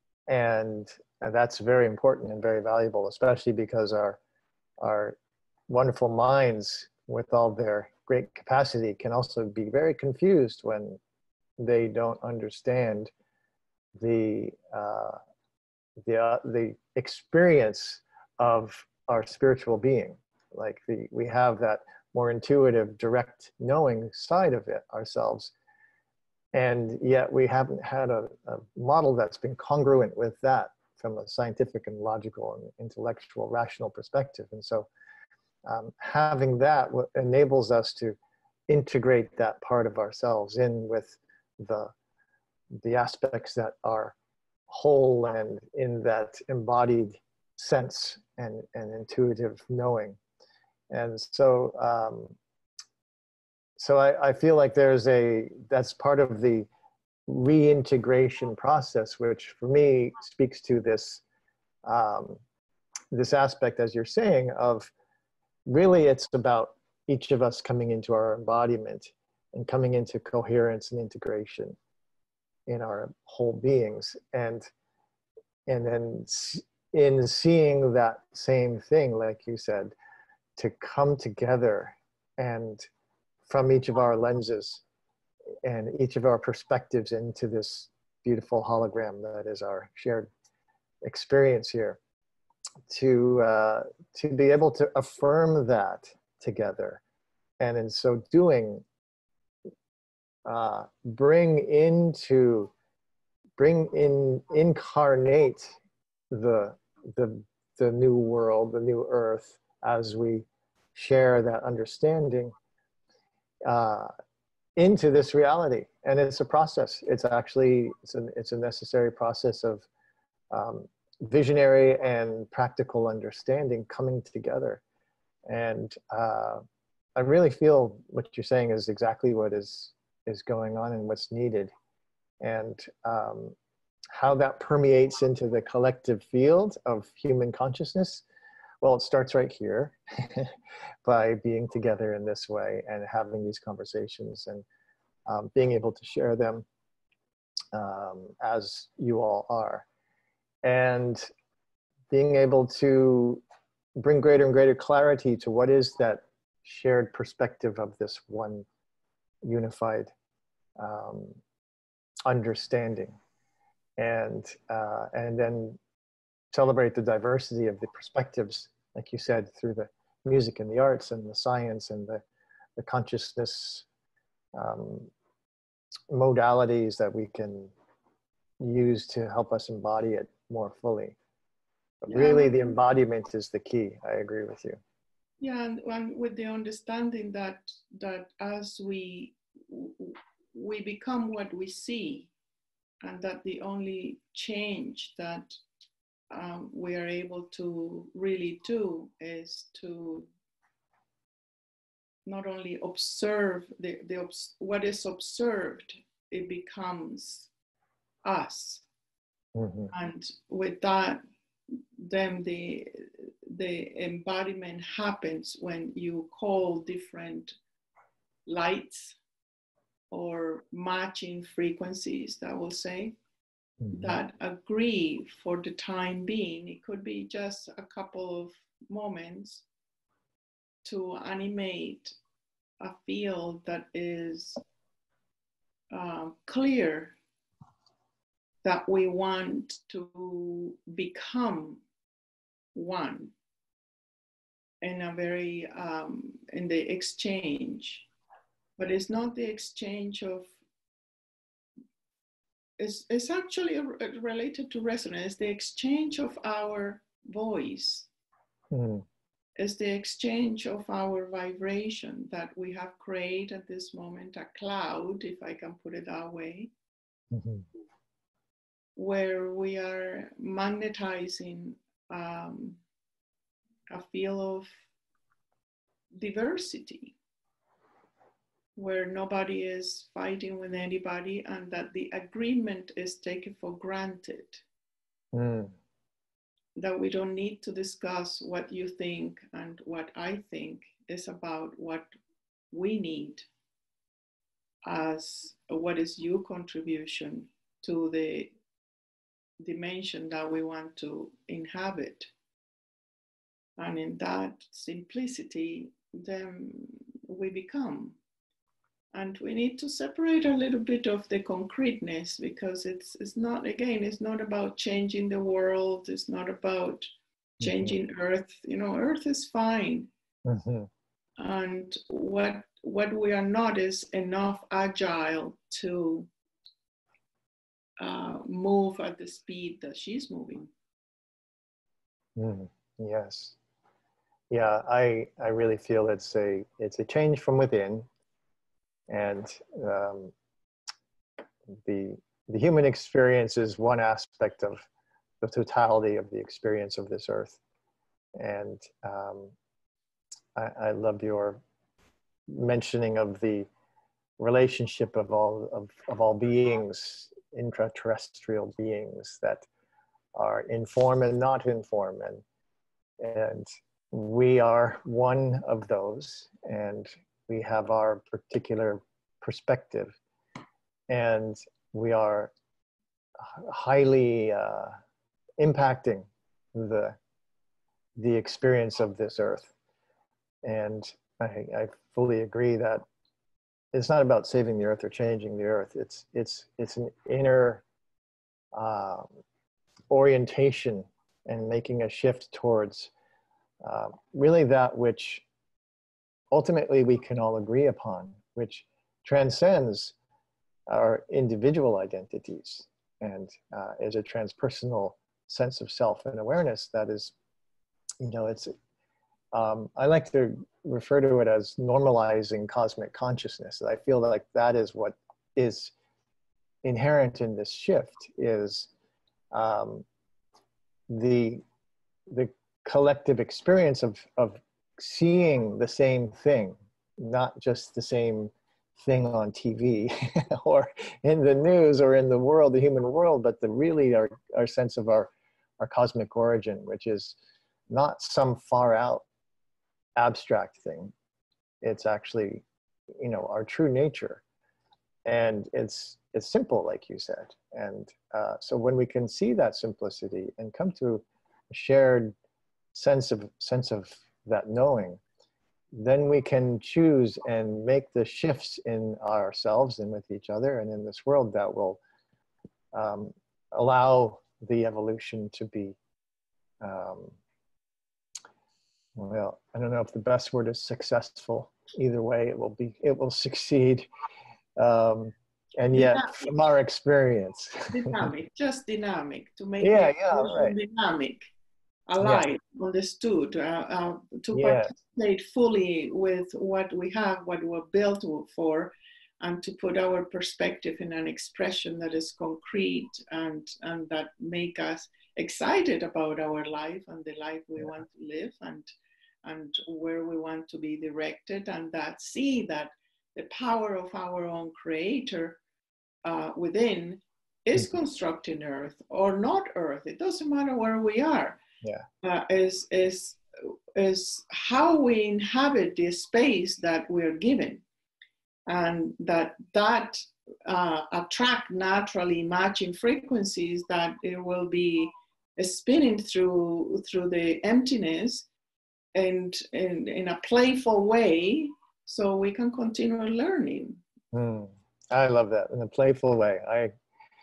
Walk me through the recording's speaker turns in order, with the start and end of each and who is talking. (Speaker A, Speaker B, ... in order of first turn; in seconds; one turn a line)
Speaker A: 0.3-4.2
Speaker A: 4.8-5.2
Speaker A: 5.7-11.0
Speaker A: 11.6-13.1
Speaker A: 13.9-15.2
Speaker A: 16.0-25.5
Speaker A: 26.5-34.9
Speaker A: 35.6-38.2
Speaker A: 38.7-41.9
Speaker A: 42.8-44.1
Speaker A: 44.7-50.2
Speaker A: 50.9-52.3
Speaker A: 53.8-56.7
Speaker A: 57.3-61.2
Speaker A: 61.8-62.4
Speaker A: 63.1-64.9
Speaker A: 65.7-71.8
Speaker A: 72.7-74.7
Speaker A: 75.7-79.9
Speaker A: 80.6-82.9
Speaker A: 83.5-84.8
Speaker A: 85.6-90.3
Speaker A: 91.0-92.0
Speaker A: 92.9-97.0
Speaker A: 97.6-98.8
Speaker A: 100.5-102.7
Speaker A: 103.6-105.8
Speaker A: 106.3-112.5
Speaker A: 113.6-114.1
Speaker A: 114.8-119.9
Speaker A: 120.5-124.8
Speaker A: 125.5-126.6
Speaker A: 127.2-131.7
Speaker A: 132.4-133.5
Speaker A: 134.1-138.2
Speaker A: 138.8-140.5
Speaker A: 141.0-144.6
Speaker A: 145.2-146.7
Speaker A: 147.7-149.8
Speaker A: 150.6-151.3
Speaker A: 152.1-153.4
Speaker A: 154.0-158.7
Speaker A: 159.4-160.1
Speaker A: 160.8-161.4
Speaker A: 162.2-163.2
Speaker A: 164.0-165.8
Speaker A: 166.5-172.2
Speaker A: 172.8-173.8
Speaker A: 174.5-175.1
Speaker A: 176.1-177.7
Speaker A: 178.6-181.2
Speaker A: 182.0-184.8
Speaker B: 182.1-182.7
Speaker B: 185.4-192.3
Speaker B: 193.0-195.6
Speaker B: 196.3-200.3
Speaker B: 202.2-207.5
Speaker B: 208.2-208.8
Speaker A: 209.5-209.9
Speaker B: 209.9-217.5
Speaker B: 218.4-219.2
Speaker B: 220.1-223.1
Speaker A: 223.8-224.2
Speaker B: 223.9-229.6
Speaker B: 230.8-232.1
Speaker B: 232.8-234.6
Speaker B: 235.9-237.1
Speaker B: 238.6-241.8
Speaker B: 242.7-243.3
Speaker B: 244.8-248.1
Speaker B: 248.8-250.5
Speaker B: 252.8-258.1
Speaker A: 258.7-259.0
Speaker B: 259.6-266.7
Speaker A: 267.3-267.6
Speaker B: 268.9-272.8
Speaker B: 273.9-274.7
Speaker B: 276.1-277.1
Speaker B: 278.8-284.6
Speaker A: 285.3-285.7
Speaker B: 286.8-292.1
Speaker B: 292.7-293.5
Speaker B: 294.8-298.5
Speaker B: 299.6-302.3
Speaker B: 303.8-308.2
Speaker B: 309.1-317.1
Speaker B: 317.6-320.1
Speaker A: 317.6-317.9
Speaker A: 320.4-320.9
Speaker B: 321.4-326.3
Speaker B: 328.0-330.7
Speaker A: 332.4-333.6
Speaker A: 334.5-338.1
Speaker A: 339.1-340.3
Speaker A: 341.7-344.9
Speaker A: 345.4-347.6
Speaker A: 348.3-349.5
Speaker A: 350.5-351.6
Speaker A: 352.5-353.7
Speaker A: 354.4-359.7
Speaker A: 360.3-362.4
Speaker A: 363.2-370.1
Speaker A: 371.1-372.5
Speaker A: 373.4-375.0
Speaker A: 375.6-377.2
Speaker A: 378.1-379.7
Speaker A: 380.6-383.0
Speaker A: 383.9-387.8
Speaker A: 388.7-389.3
Speaker A: 390.1-393.1
Speaker A: 393.8-395.4
Speaker A: 396.5-400.1
Speaker A: 400.9-407.3
Speaker A: 408.2-408.7
Speaker A: 409.5-415.9
Speaker A: 416.8-418.9
Speaker A: 419.5-420.1
Speaker A: 421.1-421.6
Speaker A: 422.3-437.4
Speaker A: 437.9-439.2
Speaker A: 440.1-441.1
Speaker A: 441.8-442.6
Speaker A: 443.2-444.4
Speaker A: 445.2-452.3
Speaker A: 452.9-455.2
Speaker A: 455.9-462.0
Speaker A: 462.9-466.0
Speaker A: 466.8-467.4
Speaker A: 469.1-474.1
Speaker A: 474.8-478.3
Speaker B: 476.0-476.4
Speaker B: 477.9-481.4
Speaker A: 479.8-480.8
Speaker B: 482.1-498.9
Speaker A: 484.5-484.9
Speaker B: 499.4-505.6
Speaker B: 506.2-511.6
Speaker B: 512.2-513.4
Speaker B: 514.0-517.8
Speaker B: 518.7-528.5
Speaker B: 529.1-534.0
Speaker A: 534.3-536.9